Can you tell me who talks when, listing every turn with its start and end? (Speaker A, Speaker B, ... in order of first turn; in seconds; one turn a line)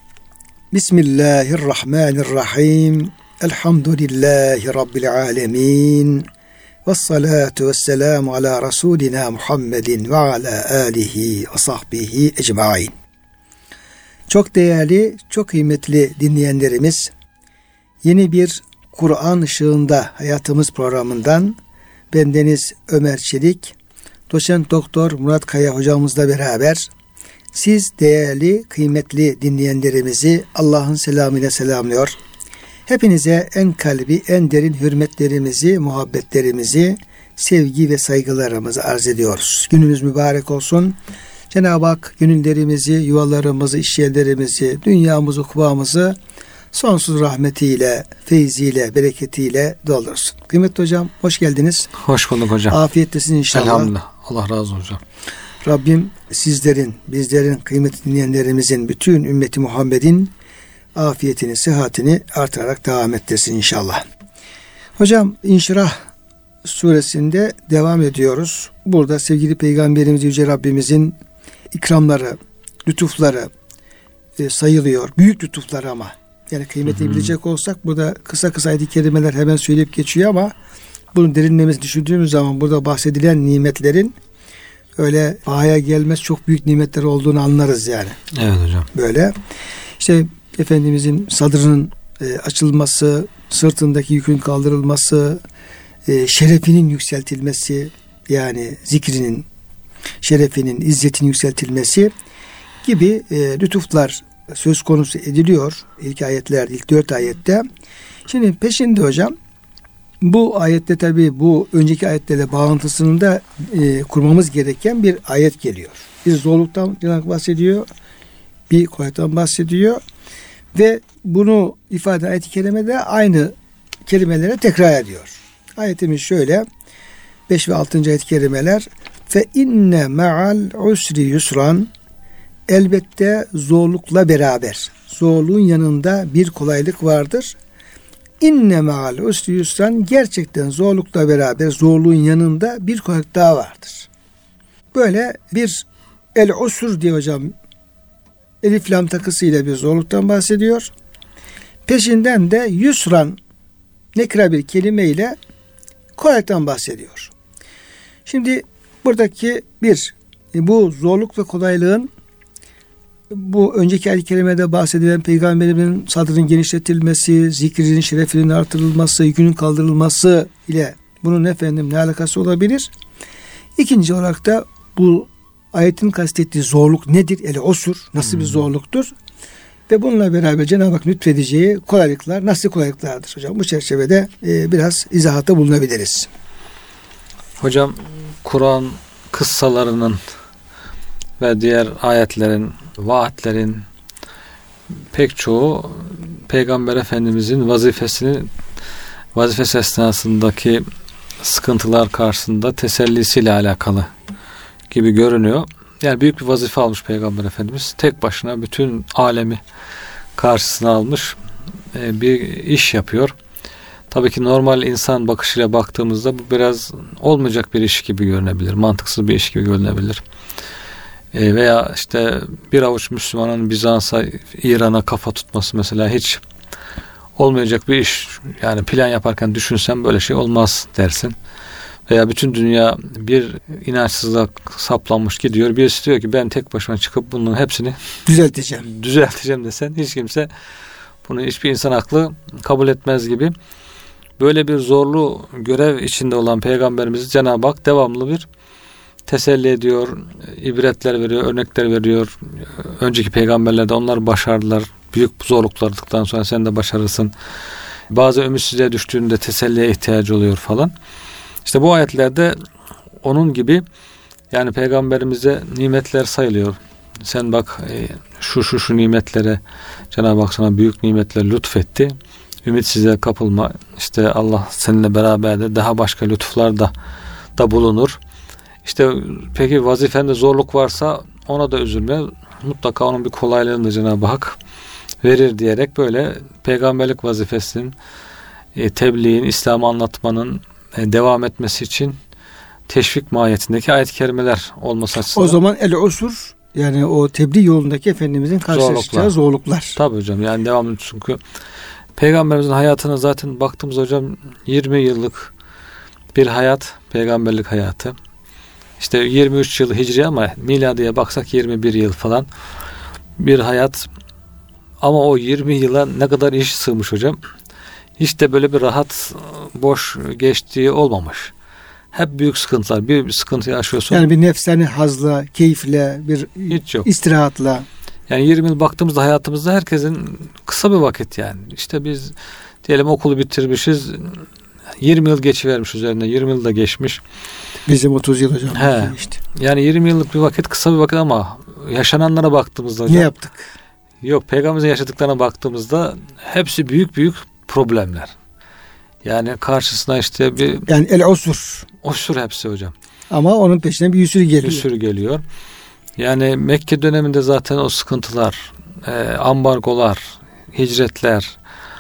Speaker A: 0.7-6.3
Speaker A: 6.9-12.9
Speaker A: 14.3-17.1
Speaker A: 18.0-21.6
Speaker A: 22.1-23.8
Speaker A: 24.3-26.9
Speaker A: 27.5-32.2
Speaker A: 32.9-41.0
Speaker A: 41.5-46.2
Speaker A: 46.7-51.9
Speaker B: 52.0-52.8
Speaker A: 52.7-53.9
Speaker B: 53.5-55.0
Speaker A: 55.6-60.3
Speaker A: 61.0-64.0
Speaker A: 65.0-66.0
Speaker A: 66.7-71.2
Speaker A: 71.7-73.5
Speaker A: 74.4-80.5
Speaker B: 76.9-77.3
Speaker A: 81.1-84.2
Speaker A: 85.0-88.2
Speaker B: 88.3-88.9
Speaker A: 88.9-89.3
Speaker A: 90.0-95.4
Speaker A: 96.1-99.5
Speaker A: 100.2-102.1
Speaker A: 102.8-107.7
Speaker A: 108.3-109.3
Speaker A: 110.2-117.9
Speaker A: 118.7-120.0
Speaker A: 120.7-123.5
Speaker A: 124.1-126.7
Speaker A: 127.5-131.9
Speaker A: 132.7-137.6
Speaker A: 138.4-144.1
Speaker A: 144.9-147.5
Speaker A: 148.6-150.9
Speaker A: 151.9-153.4
Speaker A: 154.2-155.4
Speaker A: 156.2-157.3
Speaker A: 158.3-162.1
Speaker A: 163.3-172.9
Speaker A: 173.8-179.1
Speaker B: 178.3-178.6
Speaker A: 179.9-186.3
Speaker B: 187.6-190.2
Speaker B: 191.4-193.9
Speaker B: 195.1-198.5
Speaker B: 199.3-200.8
Speaker B: 201.4-204.1
Speaker B: 204.9-209.6
Speaker B: 210.4-211.4
Speaker B: 211.9-213.3
Speaker B: 214.1-220.2
Speaker B: 221.3-226.4
Speaker B: 227.4-231.3
Speaker B: 232.1-238.0
Speaker A: 238.3-238.9
Speaker B: 238.8-240.5
Speaker B: 241.2-243.5
Speaker B: 244.4-248.5
Speaker B: 249.3-257.3
Speaker B: 258.1-260.9
Speaker B: 261.6-262.6
Speaker B: 263.2-263.8
Speaker B: 264.5-269.6
Speaker B: 270.1-272.1
Speaker B: 272.6-276.9
Speaker B: 277.6-278.2
Speaker B: 278.9-284.6
Speaker B: 285.2-287.9
Speaker B: 288.8-292.2
Speaker B: 292.9-295.6
Speaker A: 295.3-300.0
Speaker B: 298.7-299.4
Speaker B: 300.0-301.4
Speaker B: 302.2-305.5
Speaker B: 306.3-308.1
Speaker B: 309.0-312.5
Speaker B: 313.4-314.1
Speaker B: 315.0-317.4
Speaker B: 318.2-321.5
Speaker B: 322.1-324.2
Speaker A: 324.1-327.9
Speaker B: 326.7-327.1
Speaker B: 328.3-334.5
Speaker B: 335.0-337.2
Speaker A: 337.9-339.4
Speaker B: 338.7-343.3
Speaker A: 343.1-343.7
Speaker B: 344.2-348.3
Speaker B: 349.2-350.9
Speaker A: 350.9-351.9
Speaker B: 352.0-352.9
Speaker A: 353.3-354.9
Speaker B: 354.6-355.4
Speaker B: 356.2-361.6